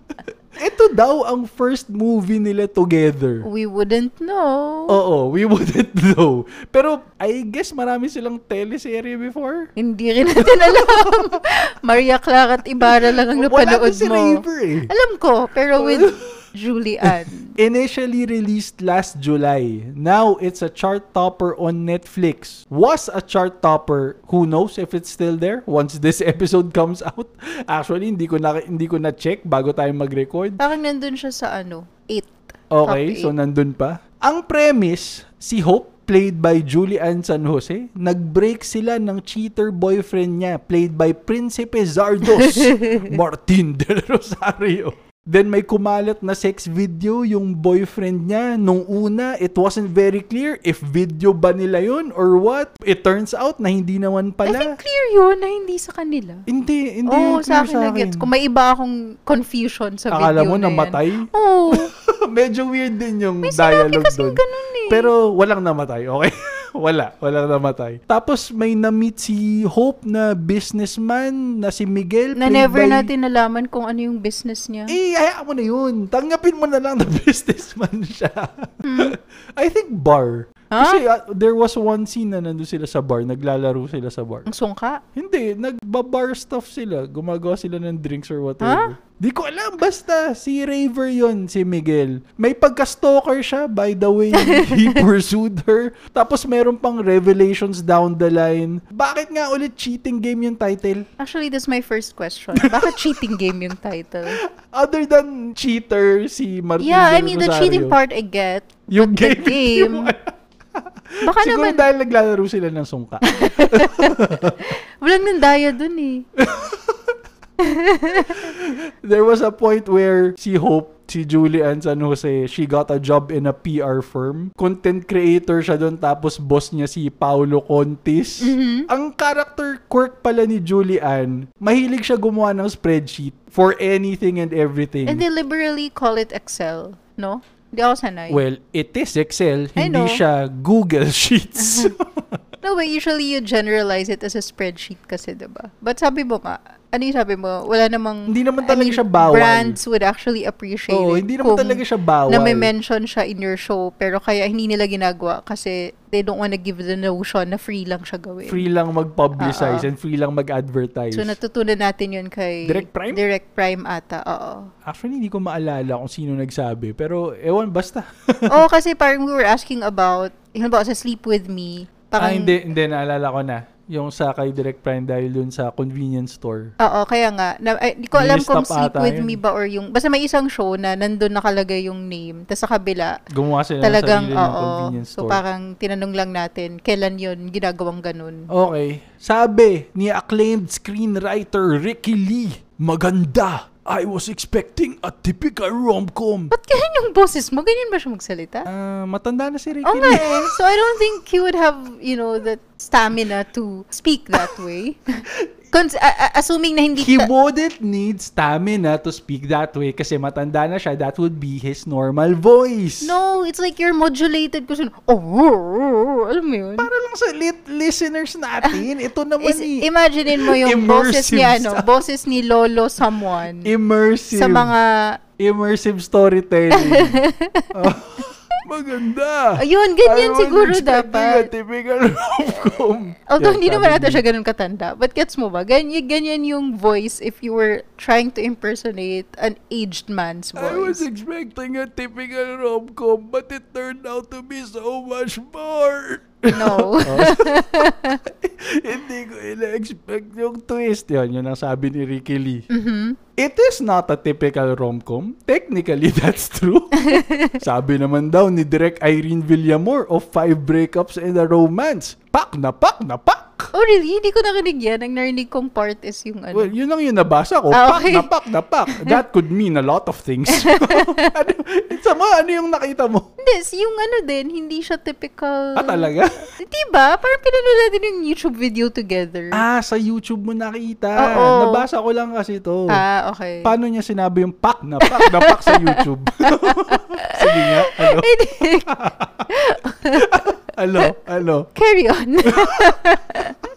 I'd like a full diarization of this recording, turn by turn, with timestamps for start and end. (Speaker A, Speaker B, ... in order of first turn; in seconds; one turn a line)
Speaker A: 0.6-3.4
Speaker B: 3.4-5.0
Speaker A: 4.9-9.7
Speaker B: 9.8-17.5
Speaker A: 10.3-11.3
Speaker A: 12.8-14.9
Speaker A: 15.8-16.3
Speaker A: 17.0-30.6
Speaker B: 30.6-33.3
Speaker A: 32.7-54.8
Speaker B: 42.4-43.1
Speaker B: 54.5-56.4
Speaker A: 56.5-58.3
Speaker B: 57.1-61.9
Speaker A: 60.1-73.1
Speaker B: 63.4-65.1
Speaker B: 72.3-75.0
Speaker A: 74.9-84.5
Speaker B: 78.8-79.2
Speaker B: 80.7-81.0
Speaker B: 84.5-85.0
Speaker A: 85.2-101.0
Speaker B: 88.6-88.9
Speaker B: 94.3-95.0
Speaker B: 101.2-104.4
Speaker A: 102.5-103.1
Speaker A: 104.6-108.0
Speaker B: 106.8-110.1
Speaker A: 108.9-114.6
Speaker B: 111.2-111.8
Speaker B: 113.3-116.2
Speaker A: 116.4-117.1
Speaker B: 117.6-118.5
Speaker A: 118.3-135.2
Speaker B: 128.4-128.9
Speaker B: 135.1-138.4
Speaker A: 138.3-142.4
Speaker B: 139.8-140.2
Speaker B: 141.6-141.9
Speaker B: 142.6-158.6
Speaker A: 148.3-149.8
Speaker A: 150.9-152.7
Speaker A: 158.5-161.4
Speaker B: 159.4-159.9
Speaker B: 161.1-164.7
Speaker A: 162.7-163.2
Speaker A: 164.8-168.6
Speaker B: 168.5-172.5
Speaker A: 172.2-176.7
Speaker B: 176.8-183.2
Speaker A: 178.1-179.4
Speaker A: 183.3-185.4
Speaker B: 183.8-188.5
Speaker A: 188.5-196.5
Speaker B: 196.5-198.7
Speaker A: 198.7-200.6
Speaker B: 199.8-207.3
Speaker A: 207.0-213.1
Speaker B: 213.0-216.9
Speaker A: 216.8-221.9
Speaker B: 219.4-223.7
Speaker A: 223.6-224.7
Speaker B: 224.3-225.2
Speaker A: 225.4-227.2
Speaker B: 226.7-227.7
Speaker A: 227.7-234.2
Speaker B: 229.6-231.5
Speaker B: 233.3-241.0
Speaker A: 240.6-252.7
Speaker B: 246.5-248.2
Speaker B: 252.7-253.2
Speaker A: 253.4-263.7
Speaker B: 257.0-257.6
Speaker B: 263.7-266.7
Speaker A: 266.5-273.3
Speaker B: 267.7-268.3
Speaker B: 268.9-269.2
Speaker B: 270.5-271.3
Speaker B: 273.4-279.6
Speaker A: 275.8-276.3
Speaker A: 279.5-283.0
Speaker B: 281.2-281.8
Speaker B: 282.9-283.7
Speaker A: 283.6-288.3
Speaker B: 285.0-288.9
Speaker A: 288.8-289.5
Speaker B: 289.5-291.1
Speaker A: 290.2-291.7
Speaker B: 291.7-293.6
Speaker A: 292.4-293.0